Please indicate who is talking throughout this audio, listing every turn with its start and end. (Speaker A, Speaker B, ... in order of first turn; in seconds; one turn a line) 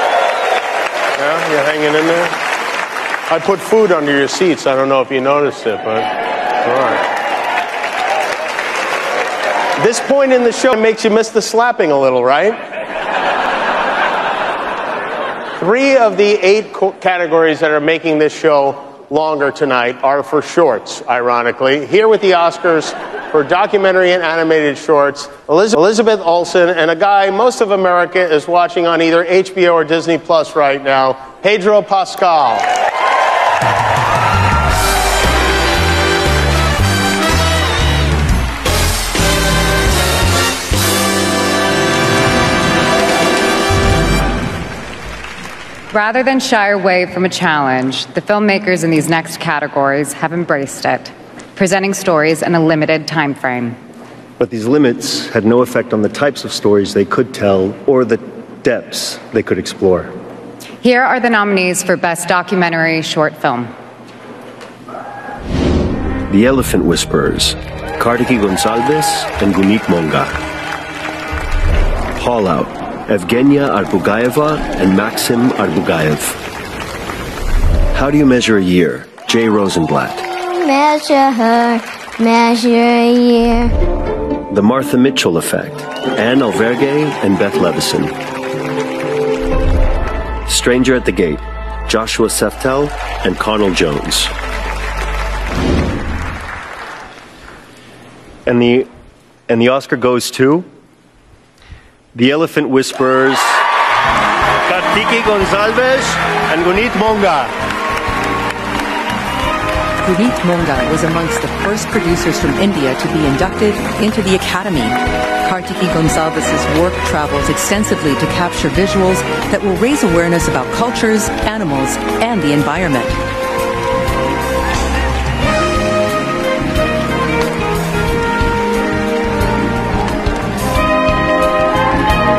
Speaker A: 1.2-2.3
Speaker A: 3.3-6.1
Speaker A: 6.6-7.0
Speaker A: 9.8-12.6
Speaker A: 15.6-32.7
Speaker B: 45.9-53.8
Speaker C: 54.4-60.1
Speaker B: 60.8-63.7
Speaker C: 66.3-70.4
Speaker C: 72.2-76.4
Speaker C: 77.9-80.3
Speaker D: 80.4-83.8
Speaker C: 84.5-88.1
Speaker C: 90.5-94.3
Speaker C: 98.5-98.9
Speaker C: 99.5-100.7
Speaker C: 102.1-103.6
Speaker C: 104.7-107.5
Speaker E: 110.0-123.2